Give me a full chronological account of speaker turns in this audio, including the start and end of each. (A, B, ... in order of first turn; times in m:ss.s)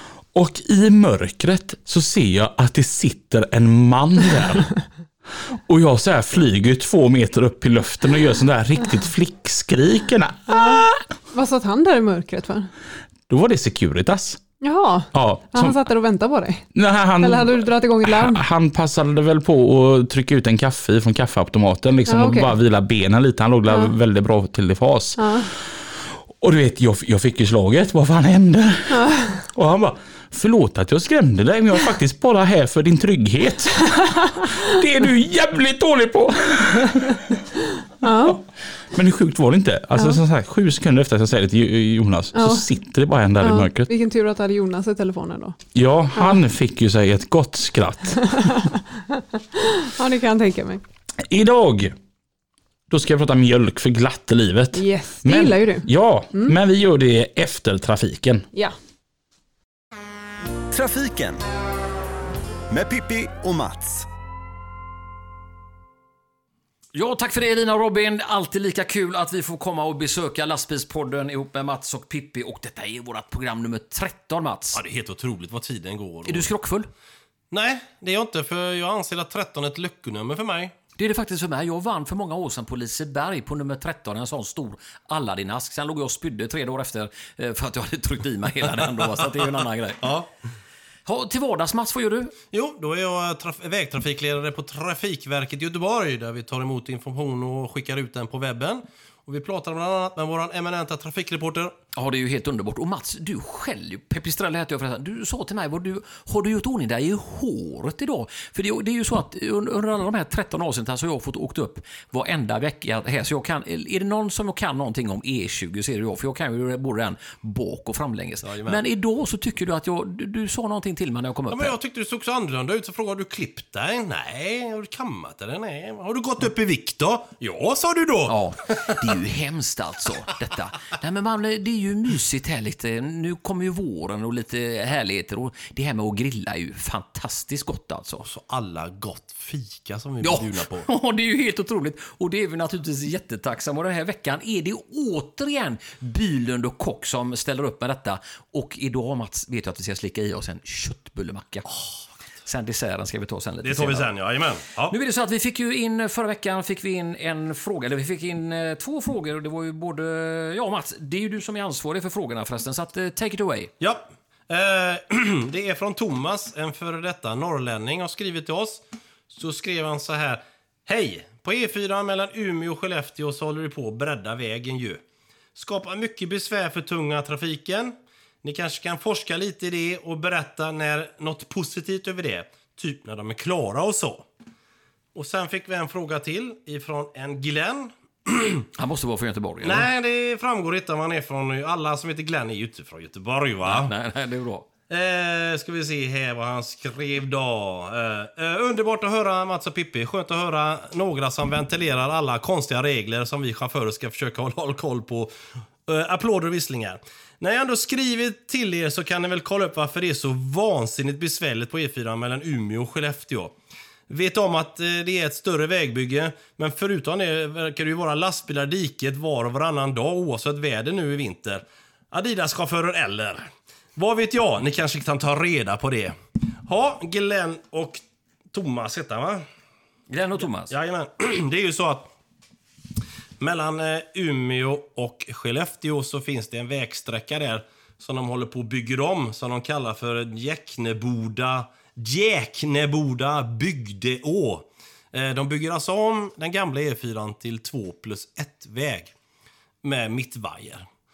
0:00.3-0:04.7 A
0:05.5-0:11.0 A
0:10.5-0:12.7 B
0:13.3-0:14.4 A
0:14.6-0:16.7 B
0:15.1-0:15.8 A
0:16.7-0:25.6 A
0:17.2-0:18.4 B
0:22.1-0:22.5 B
0:23.7-0:23.9 B
0:25.2-0:25.5 B
0:26.4-0:37.3 A
0:28.9-0:29.4 B
0:38.0-0:38.4 B
0:38.0-0:43.9 A
0:42.3-0:42.7 B
0:43.4-0:45.6 B
0:45.7-0:48.5 A
0:48.4-0:50.8 B
0:51.2-0:51.9 A
0:52.9-0:58.5 A
0:54.7-0:56.5 B
1:00.7-1:01.4 C
1:02.7-1:04.0 C
1:06.9-1:14.8 D
1:14.7-1:16.5 E
1:16.3-1:16.9 D
1:17.5-1:20.7 E
1:21.0-1:30.0 D
1:28.8-1:30.3 E
1:31.0-1:32.3 D
1:32.5-1:41.7 E
1:41.9-2:01.7 D
1:58.4-1:58.8 E
2:01.5-2:09.0 E
2:08.3-2:18.2 D
2:18.2-2:20.9 E
2:20.2-2:31.7 D
2:32.4-2:34.1 D
2:33.6-2:34.9 E
2:34.9-2:43.7 D
2:43.8-2:55.0 E
2:55.5-3:04.2 E
3:05.1-3:08.6 E
3:08.8-3:09.9 D
3:09.6-3:13.9 E
3:13.6-3:14.6 D
3:14.9-3:25.3 E
3:25.9-3:33.5 E
3:34.1-3:46.2 E
3:46.7-3:49.4 E
3:50.1-3:50.7 D
3:50.7-3:52.1 E
3:53.4-4:09.1 E
4:09.8-4:10.8 E